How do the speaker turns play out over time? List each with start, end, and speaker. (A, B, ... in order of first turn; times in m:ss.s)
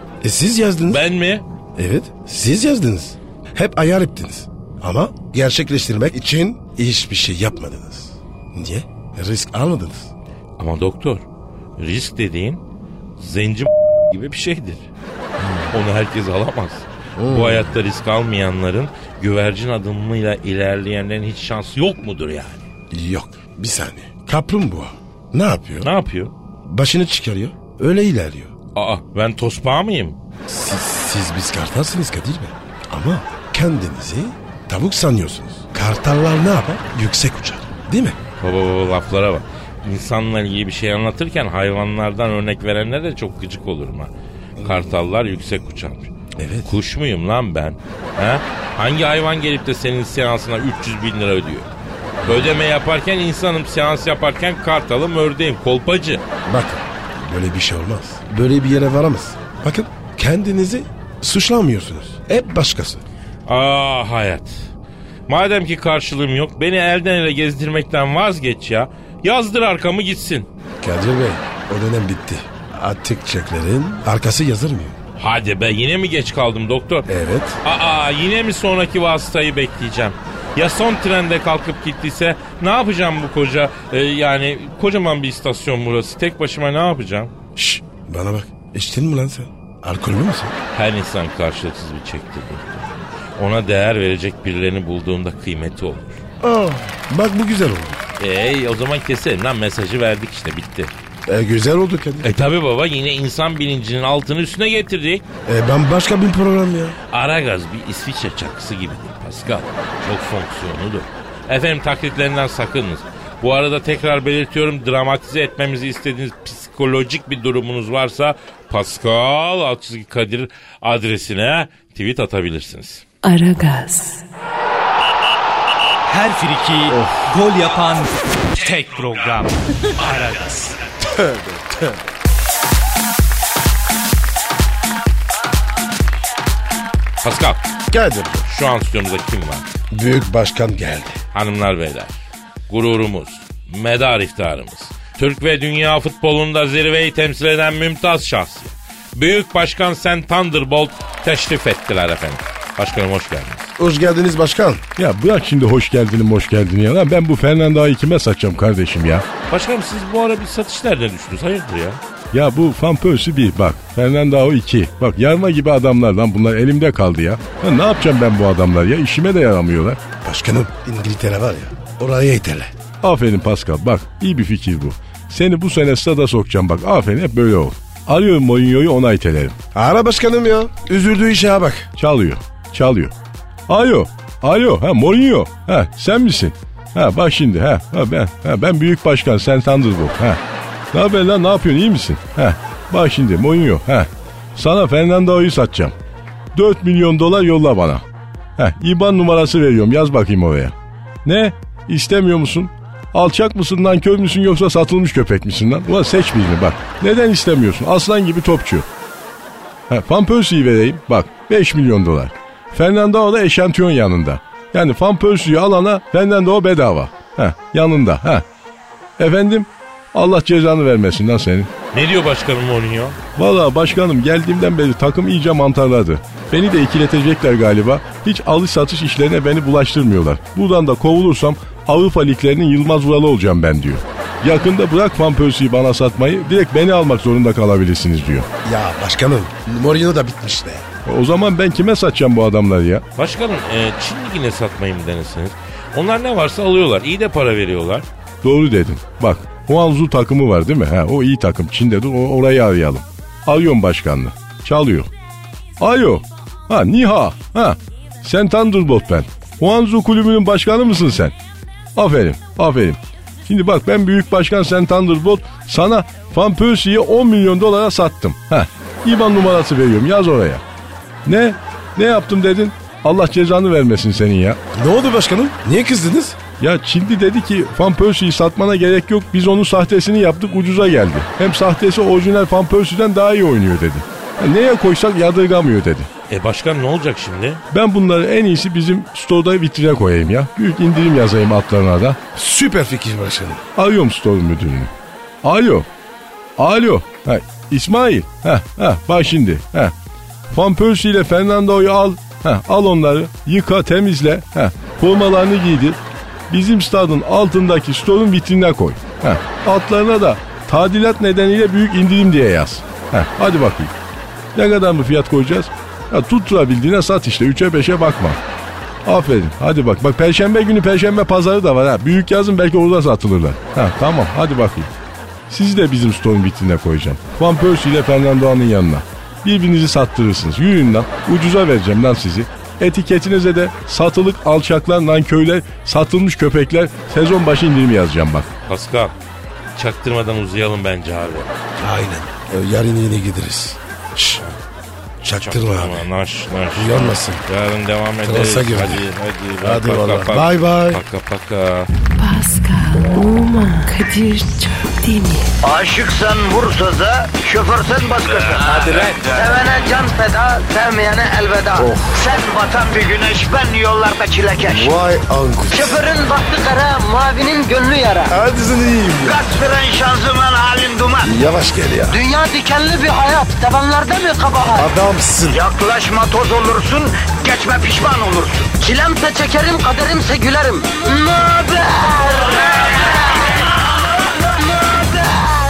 0:00.2-0:01.0 A
0:00.9-0:01.5 B
0:01.8-0:10.1 A
0:10.6-0:11.2 B
0:11.8-0:12.6 B
0:13.2-0:14.9 B
0:15.7-0:22.6 B
0:17.2-0:17.7 A
0:22.9-0:25.9 A
0:25.8-0:26.3 B
0:26.6-0:28.5 A
0:28.8-0:30.2 B
0:30.5-0:38.2 A
0:38.4-0:46.1 B
0:46.4-0:46.7 A
0:46.6-0:51.7 B
0:52.2-0:52.5 A
0:52.2-0:56.2 B
0:56.5-1:03.0 A
1:03.5-1:04.6 B
1:05.3-1:10.5 B
1:10.8-1:15.0 A
1:15.2-1:17.1 B
1:17.1-1:17.6 A
1:17.6-1:27.3 B
1:27.6-1:30.6 A
1:30.7-1:36.2 B
1:36.4-1:38.0 A
1:38.2-1:40.9 B
1:41.3-1:42.3 A
1:42.2-1:45.2 B
1:45.5-1:47.0 A
1:47.1-2:03.0 B
2:03.2-2:04.2 C
2:06.1-2:10.8 D
2:06.9-2:07.2 A
2:11.1-2:12.0 A
2:17.2-2:17.7 B
2:17.9-2:18.4 A
2:18.4-2:19.7 B
2:19.9-2:21.2 A
2:21.3-2:22.1 B
2:22.7-2:33.7 B
2:33.8-2:34.8 A
2:35.0-2:39.3 E
2:39.5-2:42.0 B
2:42.3-2:50.0 E
2:50.2-2:52.7 A
2:53.0-2:59.6 E
2:59.7-3:01.9 A
3:02.0-3:03.1 E
3:03.7-3:10.4 E
3:10.9-3:15.9 E
3:16.5-3:18.0 E
3:18.6-3:28.9 E
3:29.9-3:38.4 E
3:39.2-3:41.7 E
3:41.9-3:43.2 B
3:43.4-3:58.5 E
3:58.6-4:00.9 A
4:01.1-4:03.0 E
4:03.2-4:08.1 B
4:08.4-4:15.1 E
4:15.8-4:21.3 E
4:22.0-4:30.6 E
4:31.3-4:34.6 E
4:34.8-4:36.4 A
4:36.6-4:46.1 E
4:46.3-4:47.6 B
4:47.7-4:52.2 E
4:52.4-4:53.6 A
4:53.8-4:54.9 E
4:55.4-4:55.9 E
4:56.6-4:59.9 E
5:00.5-5:13.9 E
5:14.6-5:18.4 E
5:19.0-5:24.9 E
5:25.5-5:38.5 E
5:38.6-5:39.1 B
5:39.8-5:41.5 B
5:41.8-5:44.4 A
5:45.2-5:46.0 A
5:45.4-5:51.9 B
5:46.8-5:47.5 A
5:48.2-5:49.1 A
5:49.6-5:51.0 A
5:52.2-5:55.5 C
5:55.6-6:05.0 F
6:01.8-6:02.1 A
6:04.6-6:06.0 A
6:05.7-6:08.4 F
6:08.3-6:09.4 A
6:09.2-6:11.3 F
6:11.2-6:12.2 A
6:12.1-6:14.9 F
6:14.8-6:15.6 A
6:15.5-6:23.5 F
6:24.6-6:25.5 F